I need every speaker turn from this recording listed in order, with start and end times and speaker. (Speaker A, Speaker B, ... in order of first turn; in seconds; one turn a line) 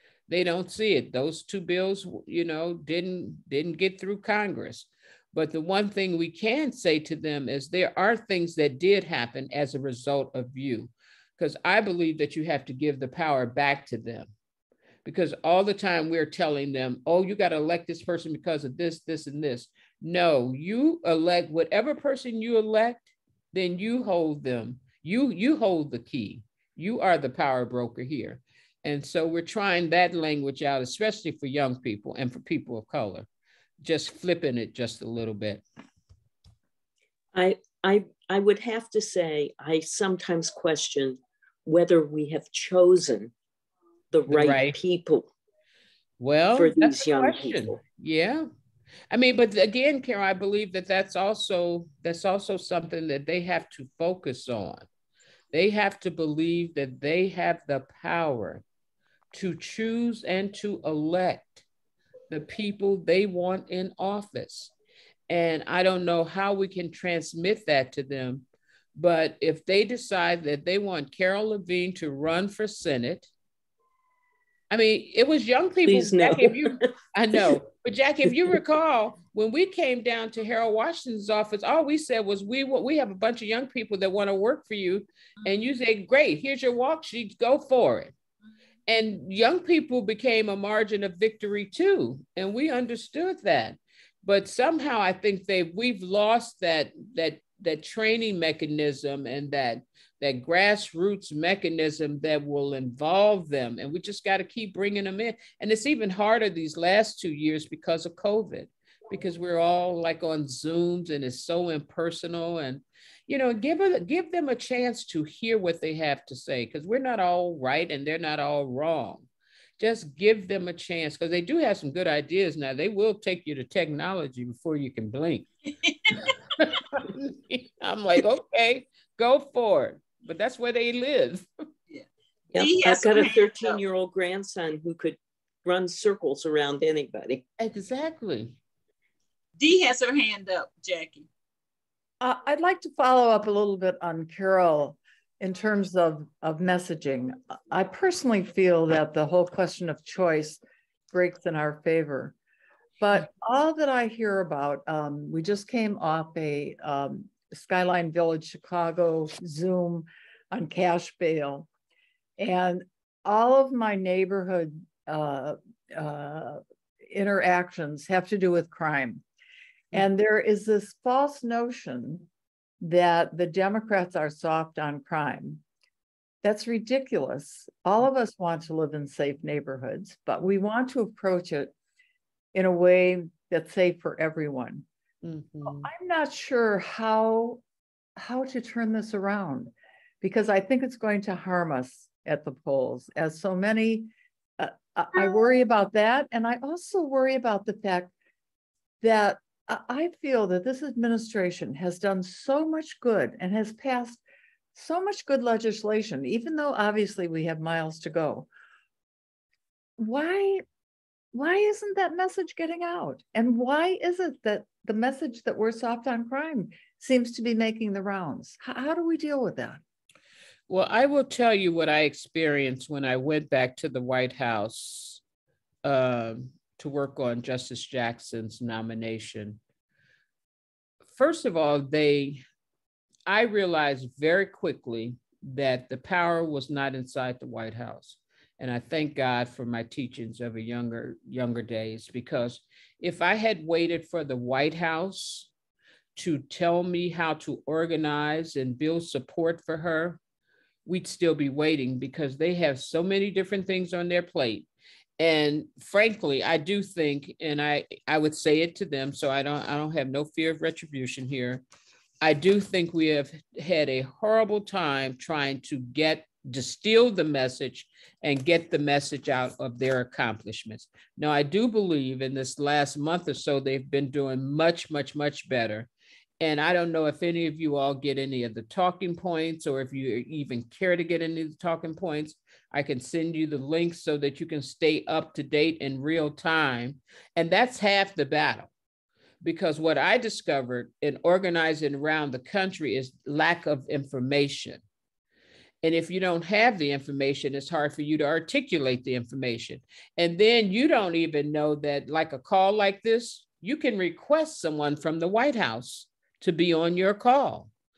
Speaker A: 0.3-14.3
Speaker A: 15.1-33.3
Speaker A: 33.8-35.6
Speaker B: 37.3-43.3
Speaker B: 44.1-45.3
Speaker A: 44.3-44.8
Speaker A: 46.2-48.5
Speaker B: 46.5-47.8
Speaker A: 49.1-54.9
Speaker A: 55.5-58.6
Speaker A: 59.3-61.6
Speaker A: 62.3-64.7
Speaker A: 65.3-68.4
Speaker A: 69.0-73.3
Speaker A: 74.7-88.1
Speaker B: 75.8-77.5
Speaker B: 78.3-78.6
Speaker A: 88.9-119.3
Speaker A: 119.8-125.5
Speaker C: 125.8-126.2
Speaker A: 126.6-131.5
Speaker C: 131.9-133.8
Speaker B: 132.5-137.4
Speaker A: 137.6-138.6
Speaker C: 139.6-141.3
Speaker D: 142.2-152.3
Speaker D: 153.0-161.7
Speaker D: 162.4-169.2
Speaker D: 169.9-172.3
Speaker D: 172.8-175.6
Speaker D: 176.4-181.7
Speaker D: 182.5-184.9
Speaker A: 185.2-185.9
Speaker D: 185.6-187.6
Speaker D: 188.2-198.1
Speaker D: 199.0-204.2
Speaker D: 204.7-208.5
Speaker D: 210.0-210.6
Speaker D: 211.3-219.8
Speaker A: 220.7-225.2
Speaker A: 225.8-229.6
Speaker A: 231.1-232.4
Speaker A: 233.3-245.5
Speaker A: 246.2-250.2
Speaker A: 250.9-254.7
Speaker A: 255.2-261.6
Speaker A: 262.2-275.9
Speaker A: 276.4-288.7
Speaker A: 289.4-294.8
Speaker A: 295.8-307.7